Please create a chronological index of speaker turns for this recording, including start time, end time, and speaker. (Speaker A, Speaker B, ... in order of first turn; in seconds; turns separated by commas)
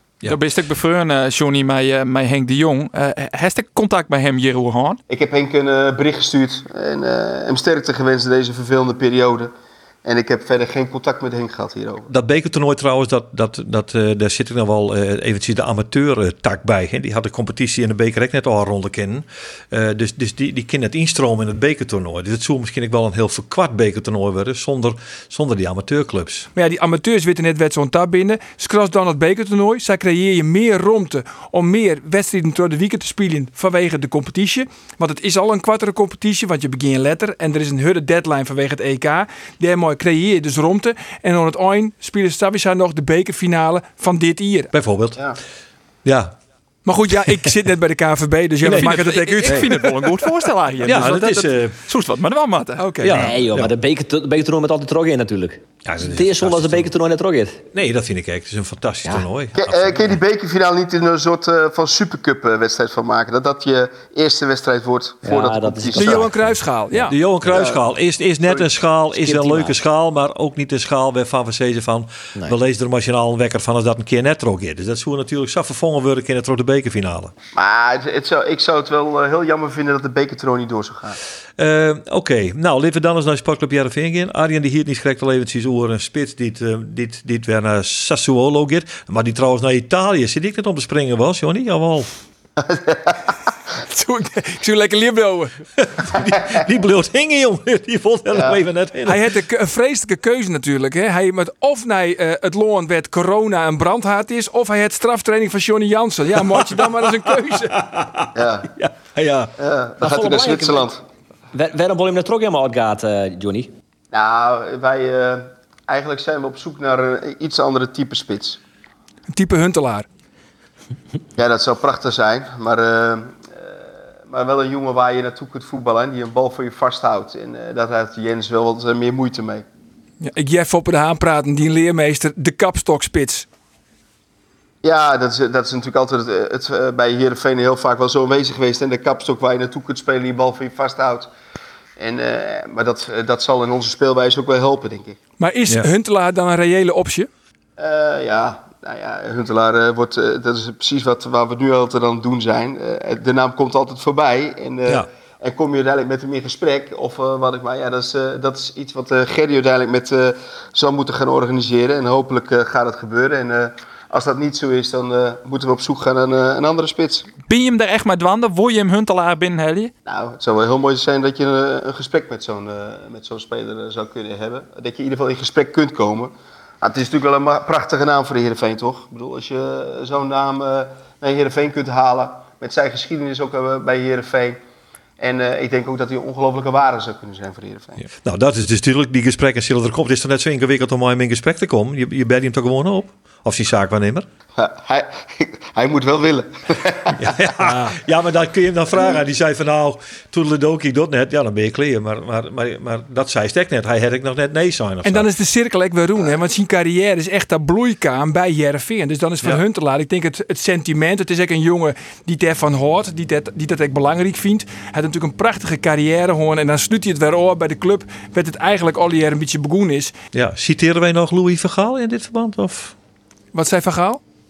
Speaker A: 0.3-5.0, Speaker B: 5.1-9.5, Speaker B: 10.1-12.1, Speaker C: 12.1-26.5, Speaker D: 26.6-44.7, Speaker C: 44.7-45.2, Speaker C: 46.0-46.4, Speaker D: 46.9-50.5, Speaker C: 48.6-49.6, Speaker A: 48.7-52.9, Speaker C: 50.8-51.8, Speaker D: 52.8-53.2, Speaker C: 53.0-53.7, Speaker E: 53.0-57.6, Speaker C: 55.9-56.9, Speaker C: 57.7-60.2, Speaker B: 59.6-66.3, Speaker E: 65.2-66.6, Speaker D: 66.0-67.1, Speaker C: 67.1-77.3, Speaker B: 67.5-67.8, Speaker E: 69.1-69.8, Speaker B: 77.5-81.2, Speaker C: 81.6-92.1, Speaker B: 92.6-93.2, Speaker D: 93.9-95.5, Speaker C: 95.8-99.3, Speaker D: 99.1-107.7, Speaker C: 106.3-109.5, Speaker B: 108.3-108.7, Speaker B: 109.6-111.0, Speaker E: 110.0-110.9, Speaker E: 111.5-113.7, Speaker B: 114.1-118.6, Speaker D: 119.3-120.1, Speaker B: 121.4-123.7, Speaker B: 124.3-129.7, Speaker D: 130.2-133.5, Speaker B: 134.8-141.3, Speaker B: 142.0-145.2, Speaker D: 145.4-147.3, Speaker B: 147.8-167.3, Speaker A: 167.5-169.9, Speaker B: 170.1-184.6, Speaker B: 185.2-188.0, Speaker C: 188.2-194.3, Speaker B: 194.6-197.6, Speaker C: 197.2-205.3, Speaker D: 205.0-220.1, Speaker C: 220.3-222.9, Speaker D: 223.5-224.2